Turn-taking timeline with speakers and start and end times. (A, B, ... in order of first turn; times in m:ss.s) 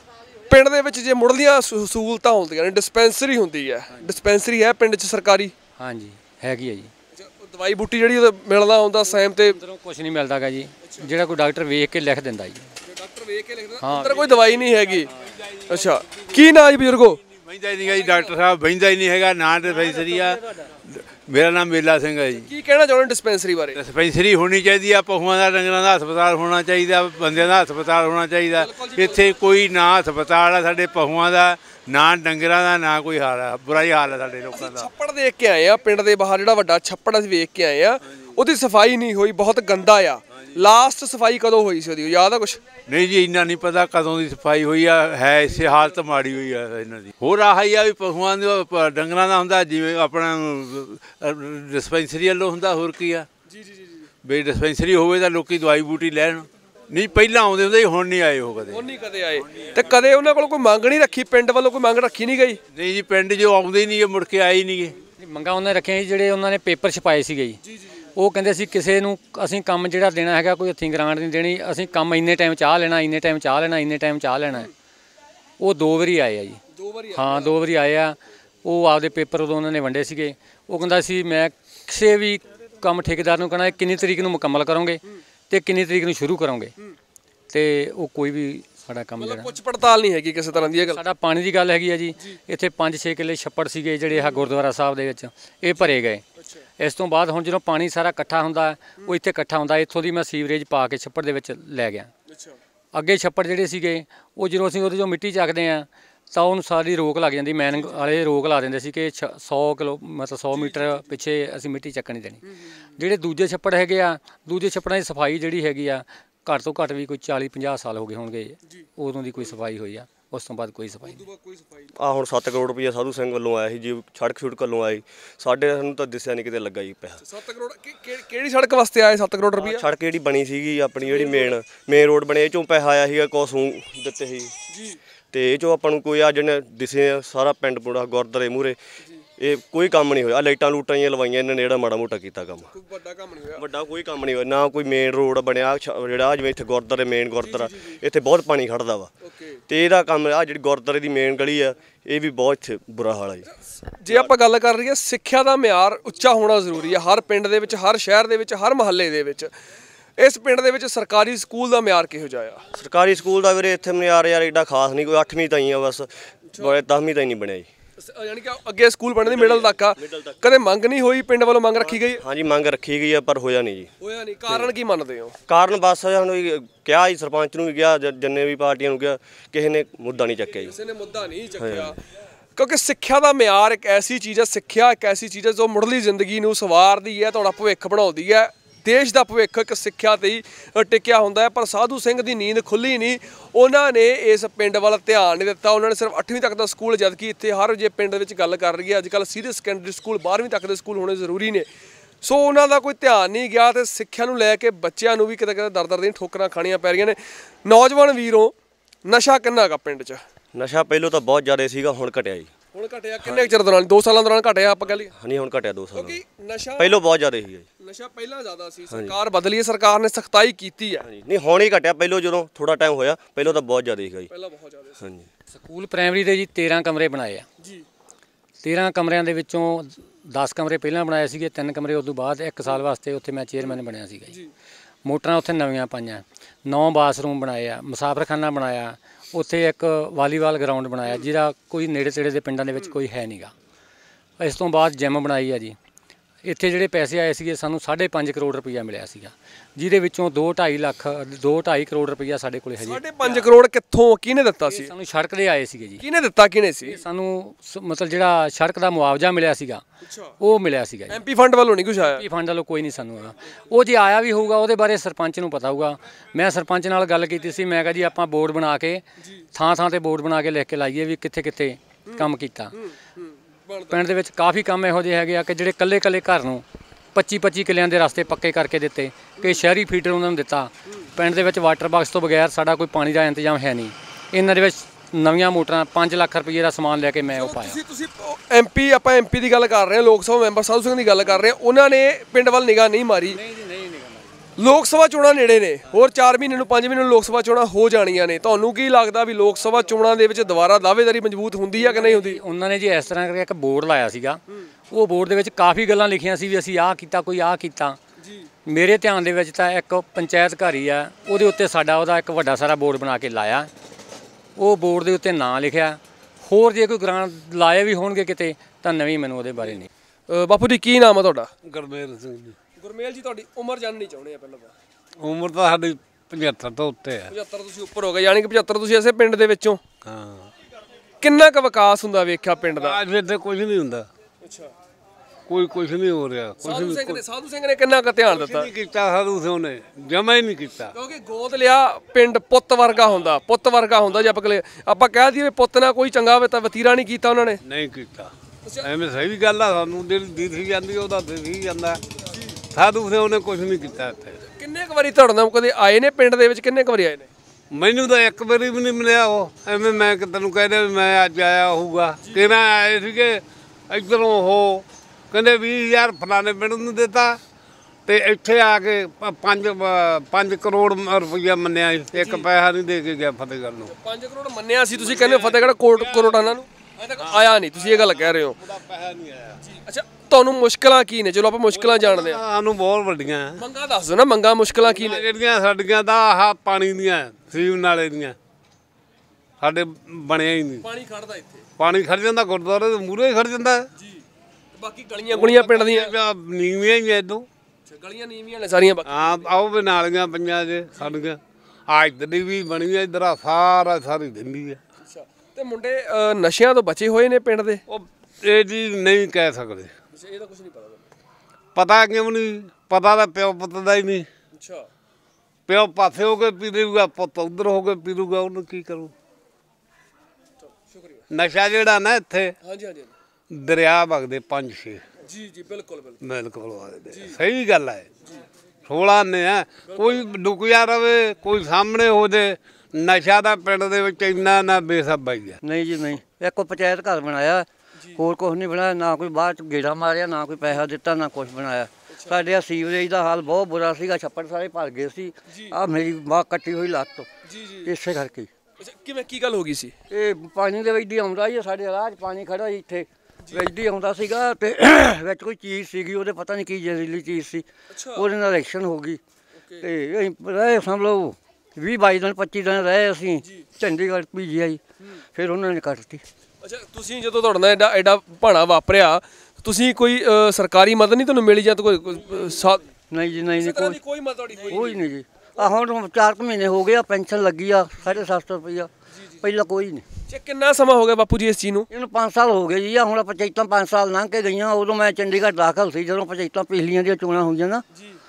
0:00.5-0:05.5 A
0:05.8-0:06.9 B
0:07.1-0:09.6 A
0:09.4-0:12.7 B
0:12.8-0:15.1 A
0:13.8-0:14.2 B
0:14.6-0:16.4 C
0:15.7-0:17.2 A
0:17.3-0:22.5 C
0:22.4-0:23.8 A
0:23.7-0:34.9 C
0:28.5-0:29.3 A
0:34.5-0:42.6 A
0:42.9-0:53.3 C
0:53.5-0:54.1 A
0:54.2-0:58.8 C
0:58.7-1:02.6 A
1:02.7-1:05.0 C
1:05.2-1:07.6 B
1:07.7-1:07.9 A
1:08.1-1:14.7 B
1:15.6-1:16.6 B
1:16.7-1:17.6 A
1:17.1-1:26.7 B
1:27.5-1:29.5 B
1:29.2-1:31.0 A
1:30.9-1:36.2 B
1:34.1-1:34.4 A
1:35.8-1:36.6 A
1:36.8-1:42.1 B
1:42.3-1:42.6 A
1:42.9-1:52.4 B
1:47.7-1:48.0 A
1:50.5-1:51.0 A
1:53.0-2:01.2 B
2:01.0-2:01.9 A
2:02.0-2:07.2 D
2:07.2-2:09.8 A
2:09.6-2:14.5 D
2:11.0-2:11.6 A
2:14.7-2:15.0 A
2:15.3-2:18.8 D
2:19.4-2:22.7 D
2:22.7-2:23.6 A
2:23.6-2:29.1 D
2:27.4-2:27.8 A
2:29.2-2:29.6 A
2:29.7-2:33.5 D
2:34.0-2:39.5 A
2:34.1-2:34.3 D
2:40.2-2:42.6 A
2:42.7-2:47.7 D
2:48.0-2:52.2 A
2:49.2-2:50.3 D
2:51.7-2:53.9 D
2:54.0-2:55.3 A
2:54.5-2:54.7 D
2:55.5-3:00.7 D
3:00.6-3:02.0 A
3:01.6-3:01.9 D
3:02.6-3:21.7 A
3:22.2-3:28.5 A
3:29.0-3:30.2 A
3:30.5-3:32.5 D
3:32.7-3:35.1 A
3:33.2-3:33.5 D
3:35.0-3:36.2 D
3:35.9-3:37.0 A
3:36.8-3:37.6 D
3:37.8-3:41.0 A
3:38.9-3:39.2 D
3:41.0-3:44.3 D
3:44.3-3:45.0 A
3:45.0-3:45.3 D
3:45.5-3:47.4 B
3:48.6-3:54.3 B
3:55.0-4:03.5 B
4:04.4-4:05.8 B
4:06.4-4:13.4 B
4:12.8-4:14.9 A
4:14.7-4:16.0 B
4:16.0-4:17.0 A
4:16.9-4:19.8 B
4:20.0-4:20.3 A
4:20.4-4:21.2 B
4:21.1-4:22.2 A
4:22.0-4:32.7 B
4:32.1-4:34.0 A
4:33.9-4:47.8 B
4:47.3-4:53.4 A
4:53.3-4:54.3 B
4:54.6-5:02.4 A
5:01.8-5:08.0 B
5:08.2-5:08.5 A
5:08.6-5:13.7 B
5:14.6-5:19.9 B
5:20.3-5:21.5 A
5:21.6-5:22.6 E
5:22.8-5:24.7 A
5:25.2-5:27.3 E
5:27.3-5:29.8 A
5:30.0-5:30.5 E
5:31.2-5:33.0 A
5:32.8-5:34.1 E
5:34.4-5:34.7 A
5:35.5-5:37.2 E
5:36.6-5:38.7 A
5:38.3-5:40.9 E
5:41.0-5:47.6 A
5:47.6-5:48.3 E
5:48.8-5:52.0 E
5:52.7-5:54.4 E
5:54.6-5:57.3 A
5:57.7-6:07.4 E
6:02.2-6:02.6 A
6:08.0-6:13.9 E
6:12.1-6:12.5 A
6:13.8-6:18.6 A
6:15.0-6:16.5 E
6:17.2-6:19.6 E
6:19.6-6:22.4 A
6:21.7-6:23.6 E
6:23.6-6:25.3 A
6:24.8-6:28.4 E
6:29.6-6:30.8 E
6:30.8-6:31.6 A
6:31.8-6:33.8 E
6:34.8-6:36.1 A
6:35.3-6:37.5 E
6:37.9-6:39.5 A
6:39.0-6:44.8 E
6:45.0-6:47.8 A
6:47.9-6:49.9 E
6:50.1-6:51.0 A
6:51.7-6:54.3 E
6:54.5-6:54.8 A
6:55.7-6:59.1 E
7:00.6-7:01.2 A
7:01.3-7:02.5 E
7:02.6-7:03.1 A
7:03.5-7:05.0 E
7:05.2-7:06.2 A
7:06.2-7:08.0 E
7:07.1-7:07.4 A
7:08.8-7:15.6 E
7:09.9-7:10.3 A
7:15.6-7:27.3 F
7:22.1-7:22.4 A
7:25.5-7:25.8 A
7:27.4-7:28.0 A
7:27.8-7:28.5 F
7:28.8-7:29.9 A
7:30.1-7:39.2 F
7:37.9-7:38.3 A
7:39.6-7:39.8 A
7:39.8-7:44.8 F
7:45.3-7:46.2 F
7:46.6-7:52.9 A
7:53.1-7:54.0 F
7:53.6-7:55.0 A
7:54.6-8:00.0 F
8:00.3-8:01.9 A
8:01.9-8:07.8 F